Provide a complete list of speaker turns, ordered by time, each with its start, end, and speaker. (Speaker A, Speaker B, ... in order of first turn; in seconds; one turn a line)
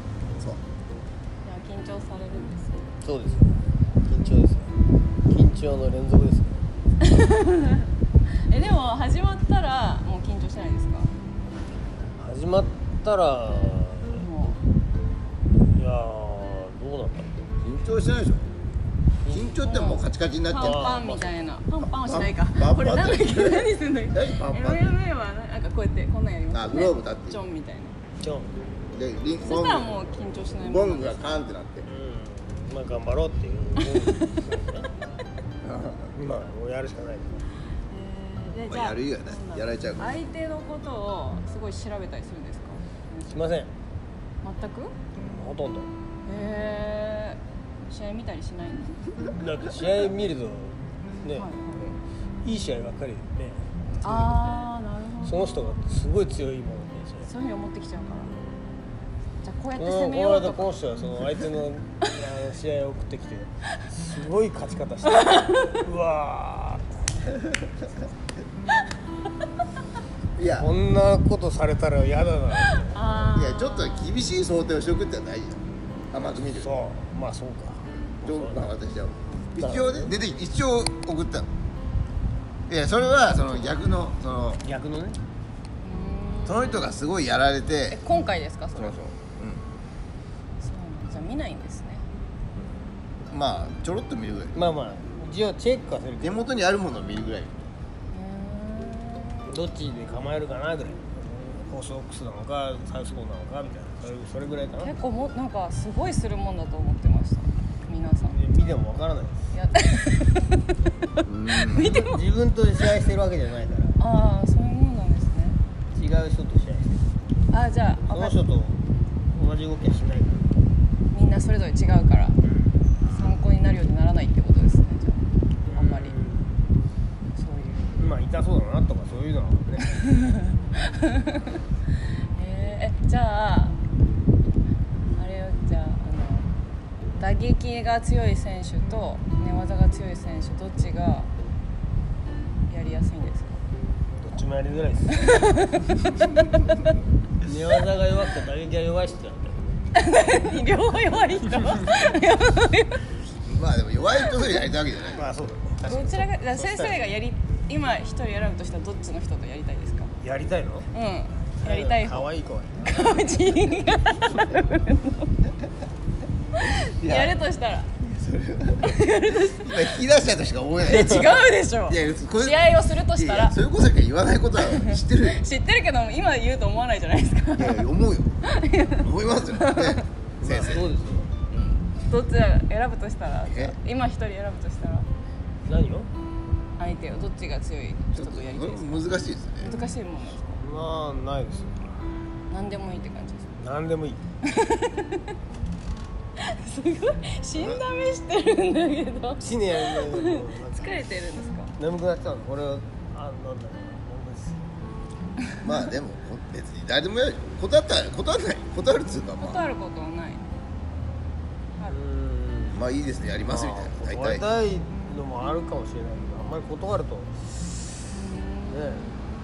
Speaker A: 1.4-2.9
Speaker B: 3.0-4.7
Speaker B: 5.3-6.6
Speaker A: 7.0-7.9
Speaker A: 8.5-11.1
Speaker B: 12.2-14.2
Speaker A: 14.2-14.6
Speaker B: 15.7-17.3
Speaker C: 17.6-18.5
Speaker B: 19.2-19.5
Speaker C: 19.3-21.3
Speaker A: 19.6-28.0
Speaker B: 20.5-21.2
Speaker C: 21.8-24.9
Speaker C: 26.5-27.4
Speaker B: 28.2-28.6
Speaker C: 28.9-29.9
Speaker A: 29.4-31.4
Speaker C: 30.6-31.9
Speaker B: 31.9-34.9
Speaker A: 33.8-34.3
Speaker C: 35.6-36.1
Speaker B: 36.1-37.4
Speaker A: 37.9-43.4
Speaker C: 38.7-40.2
Speaker B: 43.3-43.7
Speaker A: 44.4-45.0
Speaker B: 45.1-45.9
Speaker A: 46.2-49.0
Speaker B: 49.4-51.9
Speaker A: 51.3-51.8
Speaker B: 52.4-54.7
Speaker C: 53.9-54.2
Speaker A: 54.0-55.7
Speaker B: 55.2-57.3
Speaker A: 57.2-58.3
Speaker A: 59.4-60.7
Speaker B: 59.8-66.9
Speaker A: 65.1-65.7
Speaker C: 70.4-70.7
Speaker B: 70.5-73.2
Speaker A: 72.9-74.1
Speaker C: 73.3-76.7
Speaker B: 76.5-78.7
Speaker C: 77.9-81.5
Speaker B: 79.6-80.1
Speaker C: 82.7-84.6
Speaker B: 84.6-85.2
Speaker A: 85.8-86.9
Speaker C: 86.4-88.0
Speaker A: 87.9-89.0
Speaker C: 88.8-89.6
Speaker A: 90.6-92.0
Speaker C: 93.3-94.5
Speaker B: 94.5-96.5
Speaker C: 96.2-97.7
Speaker A: 98.1-99.5
Speaker B: 99.5-104.9
Speaker A: 104.8-108.4
Speaker B: 108.3-109.4
Speaker A: 109.5-110.6
Speaker C: 111.2-111.9
Speaker A: 111.5-112.2
Speaker B: 111.7-114.0
Speaker A: 114.0-115.6
Speaker B: 115.9-117.0
Speaker A: 117.5-118.4
Speaker B: 118.1-118.8
Speaker B: 119.3-120.5
Speaker A: 121.1-122.4
Speaker A: 123.1-126.1
Speaker B: 125.6-126.6
Speaker A: 127.3-128.0
Speaker B: 128.0-130.0
Speaker A: 129.9-131.6
Speaker A: 132.3-133.8
Speaker A: 135.2-136.5
Speaker A: 137.2-141.3
Speaker A: 142.7-143.6
Speaker B: 144.2-145.3
Speaker A: 145.1-146.9
Speaker B: 147.4-149.8
Speaker A: 149.9-153.1
Speaker C: 153.4-155.2
Speaker B: 155.1-157.1
Speaker A: 155.8-160.1
Speaker B: 160.2-160.9
Speaker A: 160.9-162.3
Speaker B: 161.6-163.2
Speaker A: 162.8-165.3
Speaker C: 166.6-167.4
Speaker A: 166.6-167.9
Speaker C: 168.0-171.3
Speaker A: 168.8-170.0
Speaker A: 170.8-173.5
Speaker C: 171.8-175.4
Speaker A: 174.6-177.9
Speaker C: 177.6-178.5
Speaker A: 178.4-180.0
Speaker C: 179.0-180.9
Speaker B: 180.4-181.3
Speaker C: 181.5-181.8
Speaker A: 182.0-185.1
Speaker C: 183.4-183.7
Speaker B: 185.6-186.1
Speaker A: 186.8-189.1
Speaker C: 188.1-189.7
Speaker A: 189.6-190.6
Speaker B: 190.6-192.0
Speaker A: 192.5-193.5
Speaker B: 193.6-194.2
Speaker A: 194.4-195.2
Speaker A: 196.4-201.7
Speaker C: 197.6-197.8
Speaker B: 199.4-200.9
Speaker B: 201.8-204.6
Speaker C: 205.6-209.6
Speaker A: 209.4-210.4
Speaker B: 211.9-212.8
Speaker C: 212.7-214.4
Speaker B: 213.4-217.7
Speaker A: 218.1-219.0
Speaker B: 218.7-219.1